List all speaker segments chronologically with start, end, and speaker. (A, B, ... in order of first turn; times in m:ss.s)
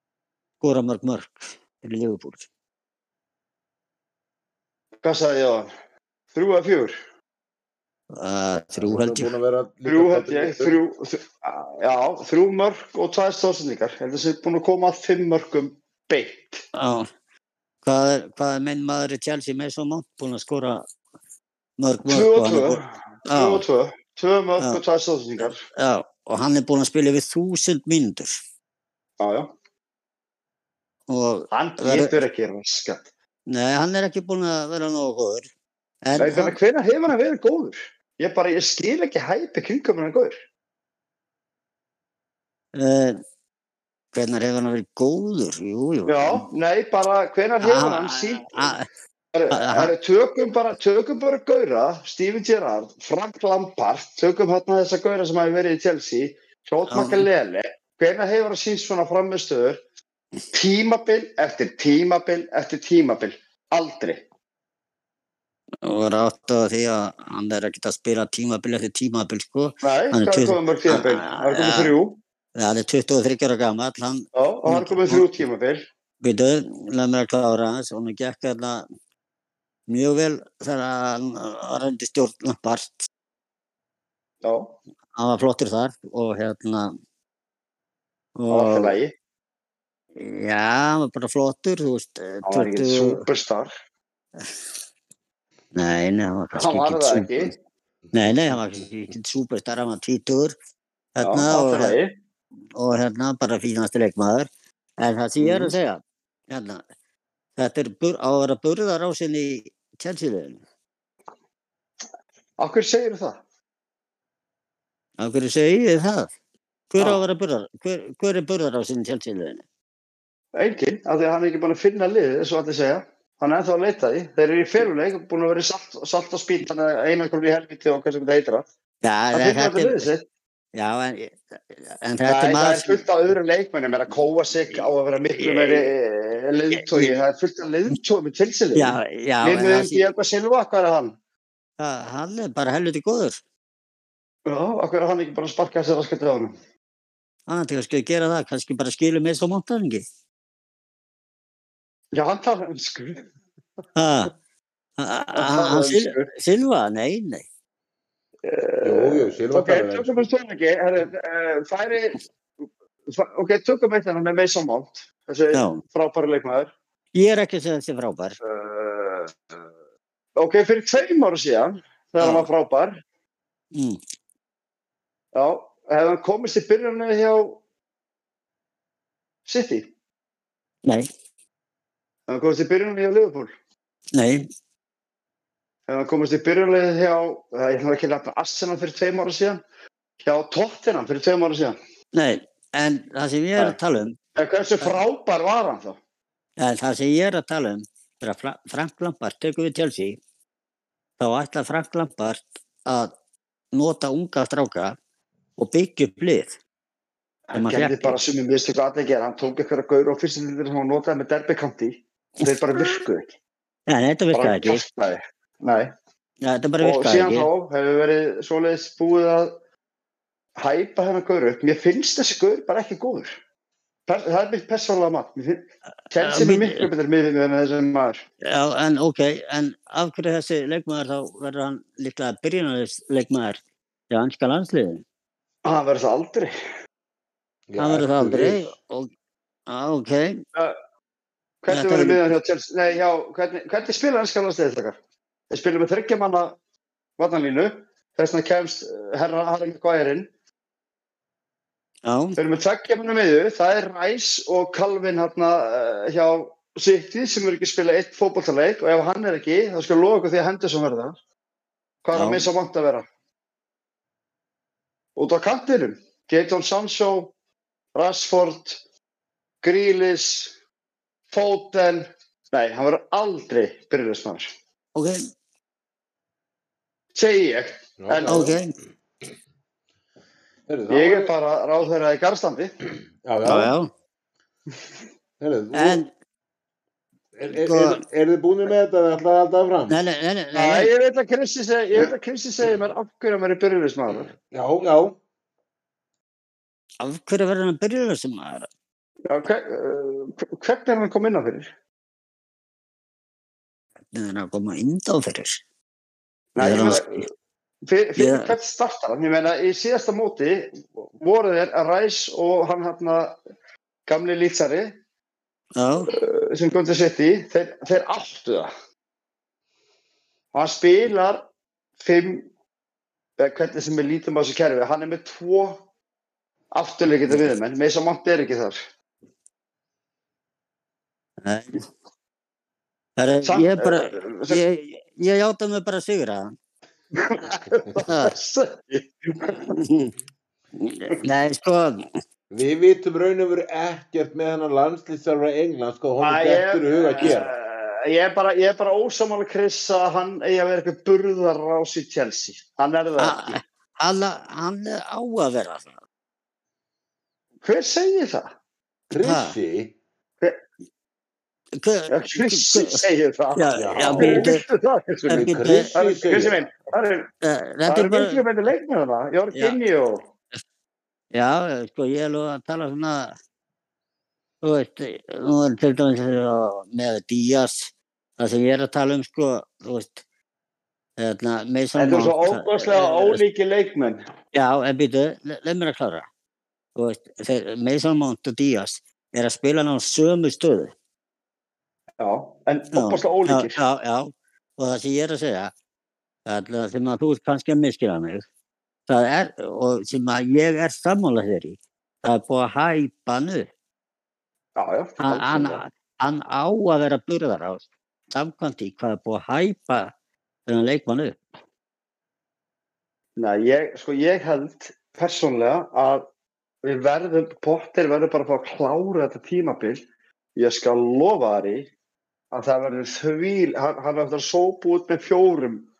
0:00.6-0:02.5 A
0:05.0-0:05.7 B
0:06.3-0:06.9 B
0:08.1-0:09.3 A
0:08.8-0:10.8 C
0:09.8-0:16.6 B
0:16.7-0:17.1 A
0:17.8-0:20.8 A
0:21.8-0:23.6 A
0:22.0-0:25.6 B
0:25.8-0:28.4 A
0:29.2-0:29.5 B
0:31.1-0:32.1 A
0:31.5-0:33.1 B
0:33.5-0:35.5 A
0:36.0-0:36.5 A
0:36.2-0:40.4 B
0:42.7-0:43.2 A
0:44.1-0:46.4 A
0:46.1-0:48.7 B
0:47.6-0:48.8 A
0:49.3-0:59.8 B
0:49.5-0:49.9 A
0:56.9-0:57.2 A
1:00.5-1:04.2 B
1:05.8-1:11.9 A
1:09.8-1:12.2 B
1:12.6-1:15.3 A
1:14.3-1:15.8 B
1:16.2-1:18.8 A
1:19.9-1:23.1 A
1:24.4-1:24.8 B
1:25.2-1:26.9 A
1:28.4-1:28.9 A
1:28.5-1:29.1 B
1:30.2-1:33.2 A
1:32.4-1:33.7 B
1:35.7-1:37.5 A
1:36.5-1:37.5 B
1:38.1-1:40.5 A
1:41.2-1:42.0 A
1:41.2-1:42.1 B
1:42.7-1:46.8 A
1:45.4-1:45.7 B
1:47.6-1:50.6 A
1:52.6-1:53.4 B
1:55.2-1:56.3 A
1:56.9-1:59.6 A
2:00.6-2:08.6 B
2:09.0-2:10.1 A
2:09.3-2:10.2 B
2:10.7-2:13.0 A
2:12.2-2:21.2 B
2:15.4-2:15.9 A
2:16.8-2:17.1 A
2:18.7-2:20.0 A
2:21.8-2:23.4 A
2:24.5-2:26.5 B
2:27.5-2:30.0 A
2:32.1-2:33.3 B
2:34.0-2:34.3 A
2:35.0-2:37.4 A
2:35.3-2:36.3 B
2:38.4-2:42.2 B
2:38.8-2:40.3 C
2:43.1-2:46.7 B
2:45.5-2:45.8 A
2:47.1-2:48.4 A
2:48.4-2:49.6 B
2:50.4-2:53.0 B
2:52.2-2:52.5 A
2:53.7-2:54.0 A
2:55.3-2:57.6 B
2:59.4-2:59.9 B
3:02.3-3:03.5 B
3:04.1-3:04.5 A
3:05.9-3:09.6 B
3:10.2-3:11.8 B
3:12.1-3:14.2 A
3:14.4-3:16.0 B
3:16.6-3:20.2 A
3:21.2-3:23.1 A
3:23.7-3:25.0 A
3:25.6-3:26.6 A
3:27.5-3:33.3 B
3:27.5-3:28.2 A
3:32.4-3:33.0 A
3:33.9-3:34.8 A
3:34.3-3:35.9 B
3:36.4-3:37.5 A
3:36.8-3:39.5 B
3:40.6-3:43.3 B
3:44.1-3:48.2 B
3:46.2-3:46.9 A
3:48.4-3:53.6 A
3:54.1-3:55.0 A
3:55.6-3:56.5 B
3:57.7-3:58.7 C
3:57.8-3:59.1 A
3:59.7-4:00.4 A
4:01.6-4:05.0 B
4:01.7-4:02.2 A
4:05.5-4:06.6 B
4:07.2-4:10.3 B
4:12.0-4:12.4 A
4:12.4-4:21.2 B
4:22.0-4:23.0 B
4:22.1-4:22.4 A
4:25.2-4:27.3 B
4:27.9-4:28.8 B
4:29.6-4:30.5 B
4:31.3-4:34.5 B
4:34.9-4:35.2 A
4:37.1-4:38.5 B
4:38.0-4:38.6 C
4:38.2-4:38.7 A
4:40.7-4:41.3 C
4:40.9-4:42.7 B
4:43.2-4:43.7 C
4:43.4-4:43.9 A
4:45.4-4:46.0 C
4:45.7-4:46.1 A
4:47.3-4:50.0 C
4:47.5-4:48.0 A
4:49.9-4:50.9 A
4:50.5-4:54.3 B
4:54.4-4:55.2 C
4:57.0-4:58.7 A
4:59.3-5:01.7 B
5:04.1-5:05.6 A
5:06.5-5:07.2 B
5:06.6-5:07.2 A
5:07.8-5:13.4 B
5:08.2-5:08.5 A
5:14.1-5:14.9 B
5:15.8-5:16.1 A
5:16.1-5:18.7 B
5:20.5-5:21.5 B
5:22.0-5:22.5 B
5:23.4-5:25.8 B
5:26.7-5:28.8 B
5:31.4-5:31.8 A
5:33.2-5:36.5 A
5:33.4-5:34.6 B
5:37.1-5:39.6 B
5:38.1-5:38.3 A
5:39.7-5:40.1 A
5:40.8-5:42.0 A
5:42.5-5:47.5 C
5:46.2-5:53.6 B
5:53.2-5:56.0 A
5:57.6-5:58.5 B
5:59.1-5:59.9 C
5:59.1-5:59.5 A
6:01.8-6:03.0 A
6:02.1-6:07.3 B
6:03.6-6:04.6 A
6:03.8-6:04.5 C
6:05.3-6:06.6 C
6:05.3-6:05.9 A
6:07.4-6:08.4 A
6:07.9-6:10.2 B
6:11.3-6:13.3 A
6:14.6-6:20.2 A
6:21.2-6:23.4 A
6:22.0-6:24.2 B
6:24.5-6:26.2 A
6:27.0-6:30.9 A
6:32.2-6:33.8 B
6:32.9-6:35.7 A
6:36.5-6:38.4 A
6:39.1-6:43.7 A
6:44.8-6:45.8 B
6:45.2-6:50.1 A
6:50.7-6:51.4 A
6:53.4-6:56.2 B
6:56.8-7:00.0 B
7:00.6-7:01.9 B
7:02.5-7:05.9 B